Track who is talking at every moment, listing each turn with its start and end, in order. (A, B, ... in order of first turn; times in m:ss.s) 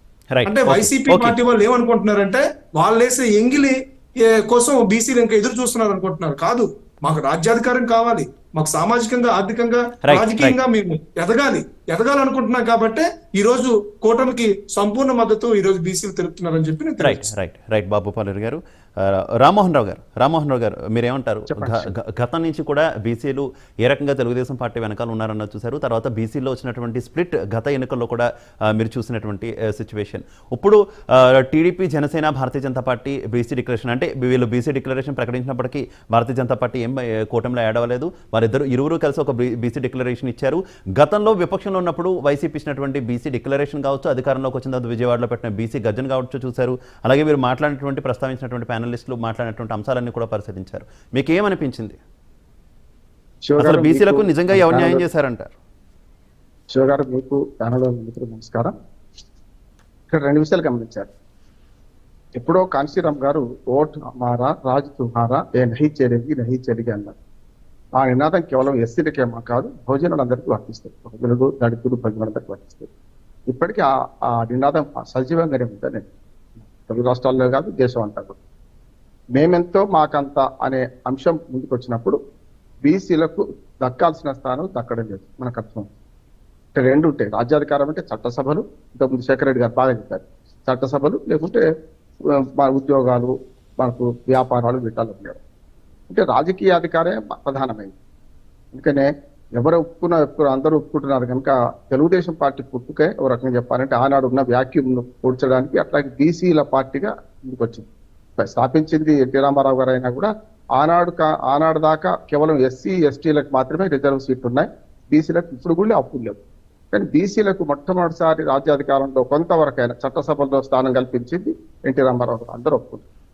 0:00.3-0:01.4 A
0:00.5-0:17.2 B
0:10.0-0:10.6 A
0:17.0-0:52.0 A
0:21.5-0:21.9 C
0:53.5-0:55.0 C
0:53.6-0:55.5 A
0:56.7-0:58.7 C
1:00.1-1:01.1 C
1:02.4-1:07.1 C
1:08.0-1:12.9 C
1:13.5-1:16.1 C
1:16.8-1:18.4 C
1:19.4-1:22.2 C
1:22.8-1:25.9 C
1:26.8-1:31.6 C
1:32.6-1:35.4 C
1:36.1-1:37.9 C
1:38.7-1:47.9 C
1:48.4-1:56.4 C
1:56.9-2:03.0 C